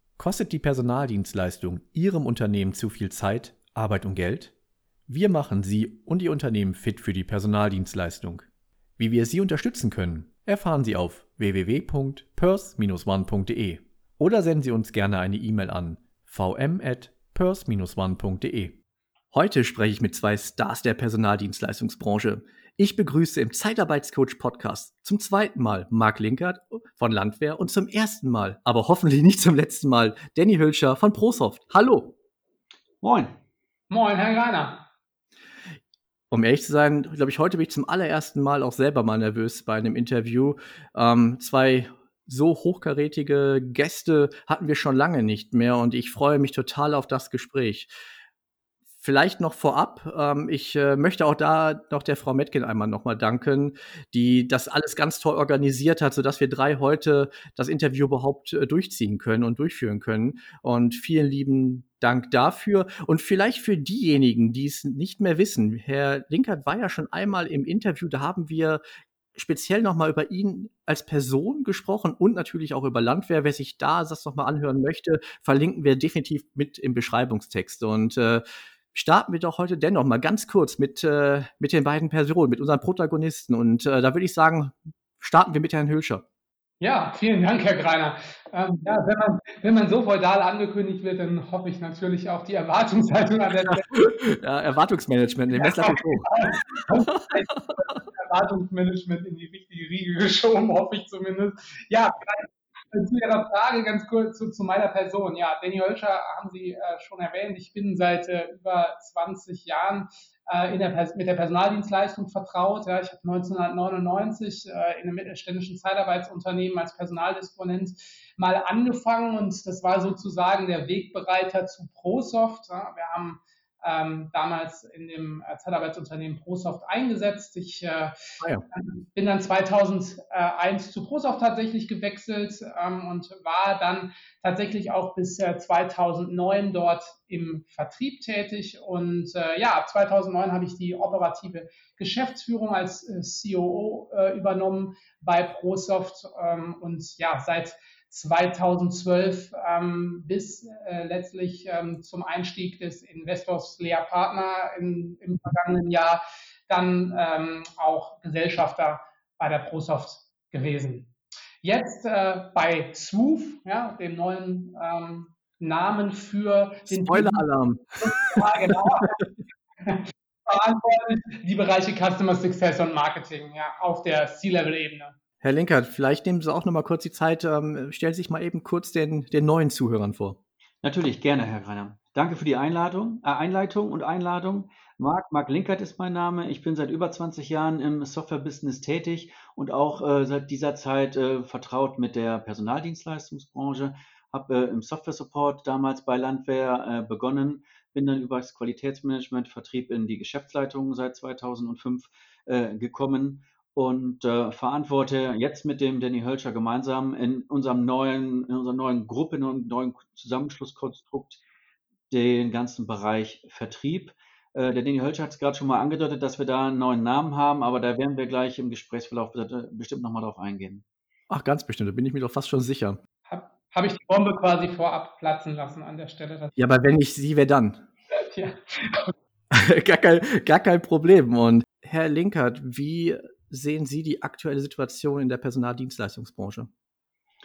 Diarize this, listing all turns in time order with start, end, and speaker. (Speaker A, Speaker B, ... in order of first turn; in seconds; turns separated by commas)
Speaker A: 0.2-4.5, Speaker A: 5.1-18.8, Speaker A: 19.3-32.1, Speaker B: 33.0-33.4, Speaker C: 33.9-34.8, Speaker A: 36.3-47.9, Speaker A: 49.0-68.8, Speaker A: 69.3-78.4, Speaker A: 78.9-86.2, Speaker C: 86.8-93.9, Speaker A: 93.7-97.2, Speaker C: 95.6-128.2, Speaker C: 128.7-161.1, Speaker C: 161.6-167.5, Speaker A: 166.9-168.5, Speaker C: 168.0-169.2, Speaker C: 169.8-175.2, Speaker A: 175.4-180.4, Speaker B: 180.8-211.4, Speaker B: 212.1-220.8, Speaker A: 221.3-223.0, Speaker C: 223.3-226.5, Speaker A: 226.6-227.8, Speaker C: 228.2-229.1, Speaker A: 229.5-236.7